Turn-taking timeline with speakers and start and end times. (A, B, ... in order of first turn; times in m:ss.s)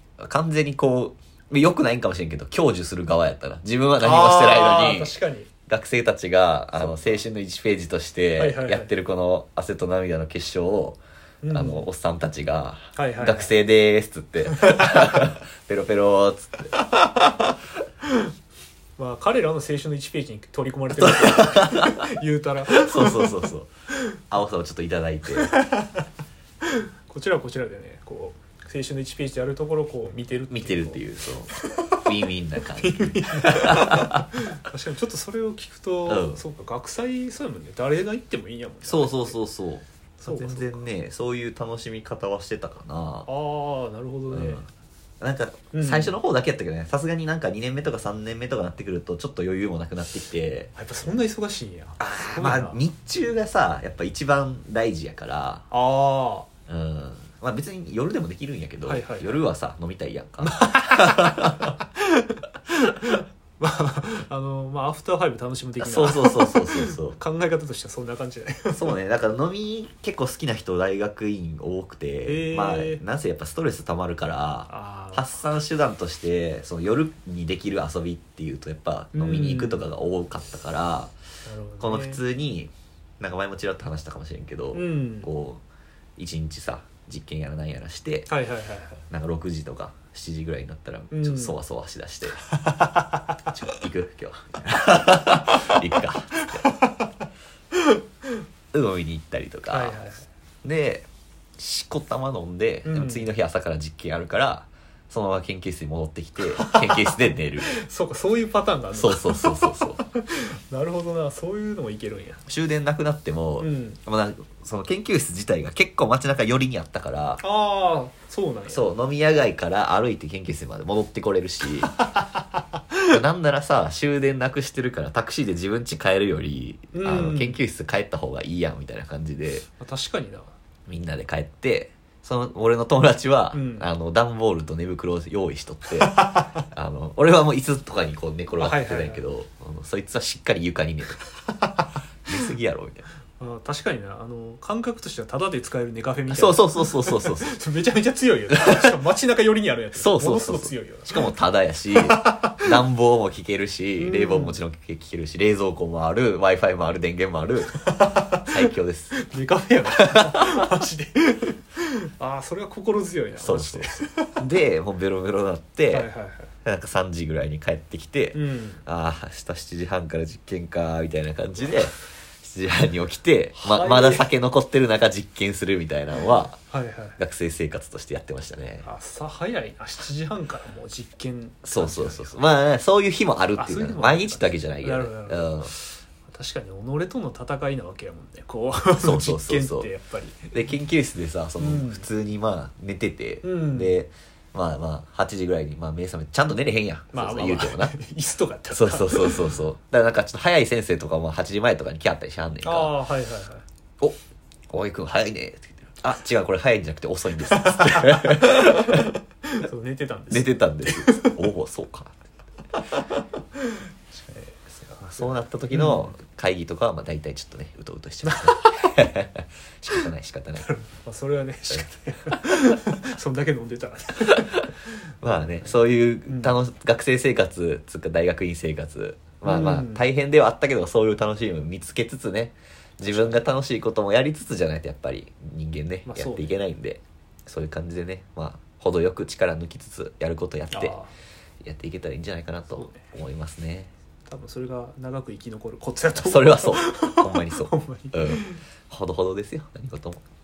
0:00.2-0:05.1 A
0:04.0-0:05.5 B
0:05.7-0:11.0 A
0:06.8-0:07.2 B
0:08.4-0:08.9 B
0:11.4-0:11.9 B
0:11.5-0:16.8 A
0:13.0-0:13.5 B
0:14.5-0:15.2 B
0:19.0-0:23.5 B
0:21.0-0:22.1 A
0:22.7-0:23.7 A
0:24.3-0:25.6 A
0:25.4-0:26.0 B
0:26.7-0:32.1 B
0:30.5-0:34.3 A
0:32.7-0:39.4 B
0:36.1-0:36.4 A
0:38.8-0:43.3 A
0:40.2-0:40.8 B
0:43.2-0:44.7 B
0:44.3-0:44.6 A
0:45.2-0:50.7 A
0:45.7-0:46.2 B
0:50.7-0:52.8 B
0:52.0-0:55.6 A
0:55.7-0:56.5 B
0:56.7-1:01.7 A
0:58.8-0:59.4 B
1:00.5-1:08.9 B
1:05.8-1:07.2 A
1:08.7-1:21.1 A
1:12.2-1:13.0 B
1:14.7-1:15.4 B
1:19.1-1:19.9 B
1:21.4-1:22.2 B
1:21.8-1:25.6 A
1:24.7-1:25.3 B
1:26.2-1:28.3 A
1:28.3-1:29.0 B
1:29.1-1:32.5 A
1:31.1-1:31.6 B
1:32.5-1:33.2 B
1:33.5-1:36.6 A
1:35.3-1:35.8 B
1:36.6-1:36.9 B
1:38.7-1:40.0 A
1:39.7-1:40.2 B
1:40.6-1:41.1 A
1:41.6-1:47.7 A
1:42.8-1:43.3 B
1:46.5-1:52.4 B
1:49.0-1:50.0 A
1:52.5-1:57.4 A
1:53.6-1:54.0 B
1:57.4-1:58.8 B
1:58.7-2:02.0 A
2:03.1-2:09.6 A
2:06.9-2:07.6 B
2:09.8-2:10.5 B
2:10.9-2:21.2 A
2:13.5-2:13.9 B
2:16.0-2:16.4 B
2:18.6-2:19.2 B
2:22.3-2:23.0 A
2:23.4-2:31.3 B
2:26.3-2:27.5 A
2:30.0-2:37.8 A
2:31.9-2:32.7 B
2:34.0-2:34.6 B
2:37.8-2:38.6 B
2:38.4-2:39.2 A
2:39.1-2:44.4 B
2:40.0-2:40.5 A
2:43.4-2:46.1 A
2:45.9-2:46.5 B
2:46.6-2:56.6 A
2:48.3-2:48.8 B
2:53.6-2:54.3 B
2:56.7-2:57.2 B
2:57.2-2:58.8 A
2:58.8-3:02.3 B
3:01.6-3:05.7 A
3:03.6-3:10.5 B
3:09.0-3:09.9 A
3:10.5-3:18.0 A
3:11.6-3:12.0 B
3:13.4-3:13.9 B
3:17.1-3:19.5 B
3:18.7-3:23.0 A
3:22.6-3:23.6 B
3:24.7-3:29.2 A
3:27.4-3:31.3 B
3:30.3-3:32.1 A
3:32.7-3:33.0 A
3:34.1-3:36.1 B
3:35.2-3:40.7 A
3:38.2-3:39.1 B
3:40.6-3:44.7 B
3:45.2-4:00.9 A
3:46.3-3:46.5 B
3:49.4-3:50.0 B
3:53.0-3:53.4 B
3:56.0-3:56.5 B
4:00.7-4:01.1 B
4:01.6-4:03.9 A
4:02.7-4:03.0 B
4:04.3-4:08.6 B
4:06.2-4:10.2 A